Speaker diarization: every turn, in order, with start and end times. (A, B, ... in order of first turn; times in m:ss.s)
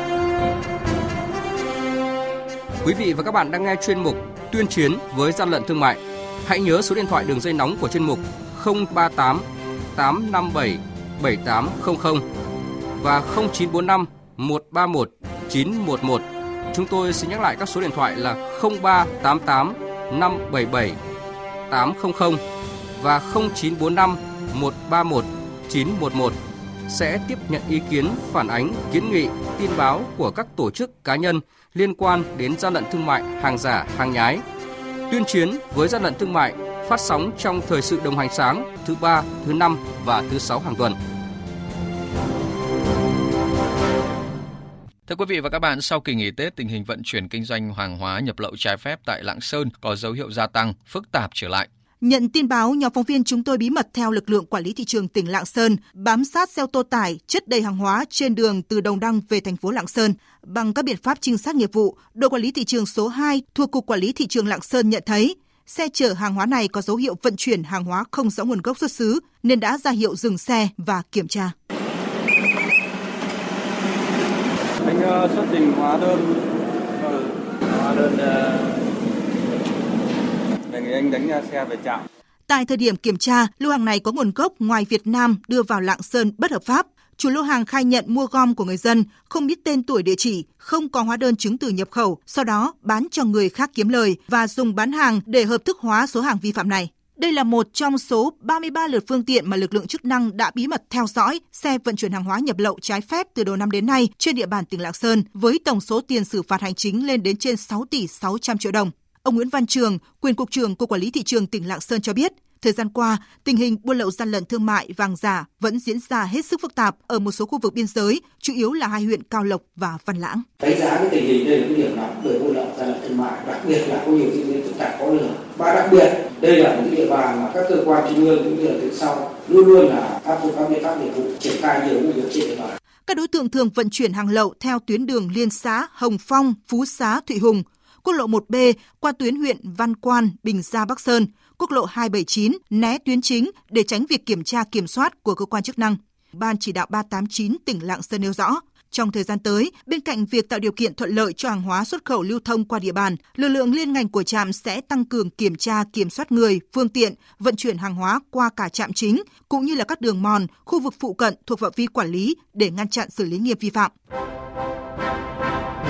0:02.8-0:12.2 A
0:13.0-0:21.0 A
0:21.7-0:22.4 A
0:23.0-0:34.4 A
0:35.1-0:41.0 A
0:45.1-0:51.7 B
0:52.0-1:11.5 C
1:14.8-1:16.4 D
1:17.0-1:18.7 D
1:20.7-1:22.0 D
1:22.5-2:00.4 C
2:00.6-2:12.8 E
2:13.0-2:43.9 C